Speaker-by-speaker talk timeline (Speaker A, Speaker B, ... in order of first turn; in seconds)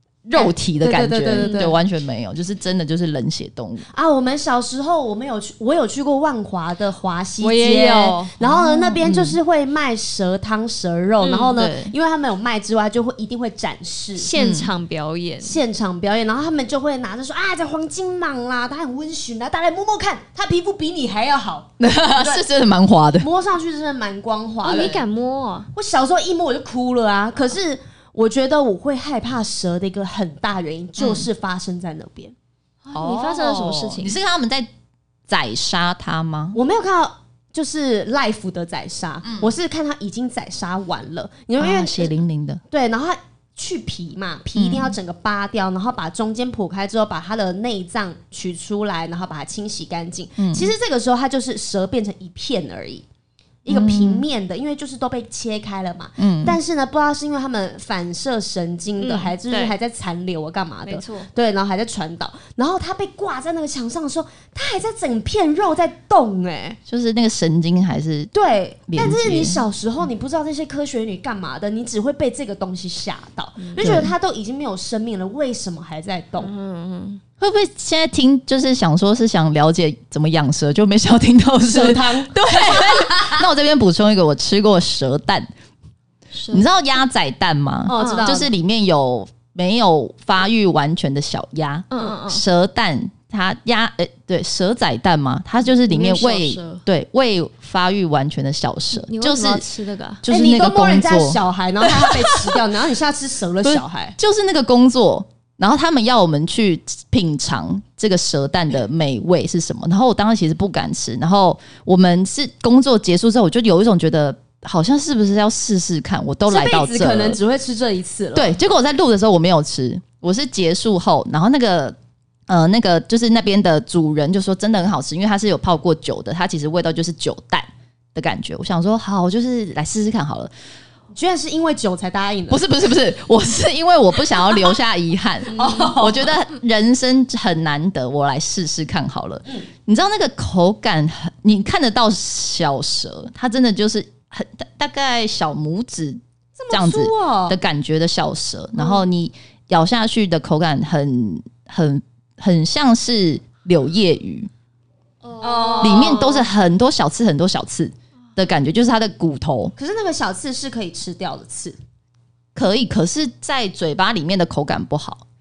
Speaker A: 0.2-3.8, 9.0-9.4, 11.6-11.9, 14.3-14.7, 21.8-23.3, 31.0-31.3, 32.9-34.7, 35.3-36.6, 41.6-42.6, 44.5-45.0, 50.4-50.7, 53.7-54.2, 56.2-56.6, 66.9-68.3, 68.9-69.6, 73.8-74.1, 77.4-85.5, 86.5-99.7, 100.2-102.6, 103.6-117.4, 118.3-122.0, 122.5-130.5, 132.5-154.5, 155.8-159.7, 162.5-165.2
Speaker B: 0.3-1.8, 3.9-14.3, 15.4-22.4, 23.2-25.0, 25.7-32.3, 36.5-42.1, 42.7-53.0, 53.6-66.8, 68.3-76.5, 81.6-83.4, 87.8-88.5, 100.3-104.2, 116.5-118.5, 131.1-132.6, 135.5-136.3, 146.6-147.6, 155.4-156.3, 159.8-161.8
Speaker C: 1.4-1.7, 7.4-9.0, 11.2-11.6, 14.2-15.6, 24.6-25.7, 32.9-34.1, 59.0-59.7, 60.9-61.3, 73.6-74.0, 76.4-77.2, 86.3-86.6, 88.0-88.4, 91.9-92.4, 95.8-96.8, 98.9-100.2, 148.8-149.0, 155.2-156.5